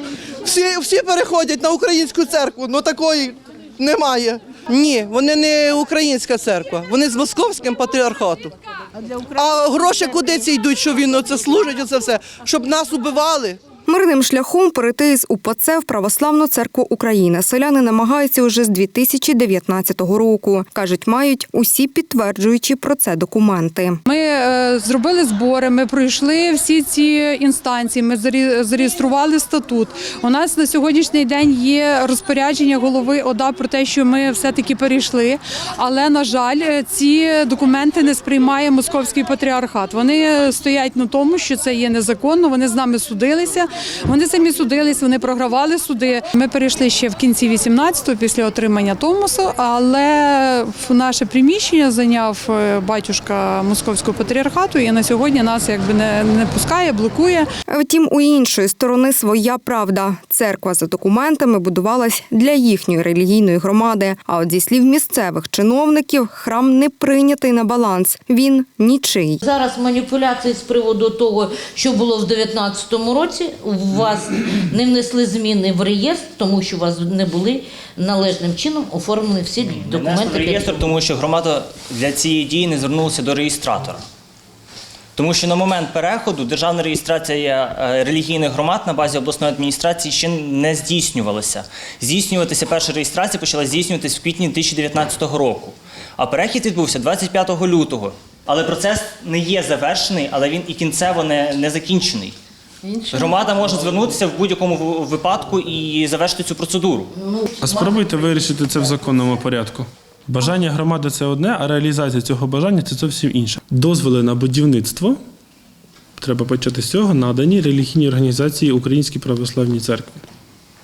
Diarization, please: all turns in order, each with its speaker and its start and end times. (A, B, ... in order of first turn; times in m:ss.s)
0:00.4-0:08.5 A
0:09.3-0:13.6 A
0:13.8-0:24.0 B
0:24.1-0:57.5 C
0:57.7-1:09.4 B
1:09.4-1:20.8 D
1:19.8-1:24.0 E
1:25.2-1:42.4 E
1:43.1-1:47.1 E
1:47.2-1:47.8 D
1:47.6-1:55.2 F
1:56.2-2:00.2 F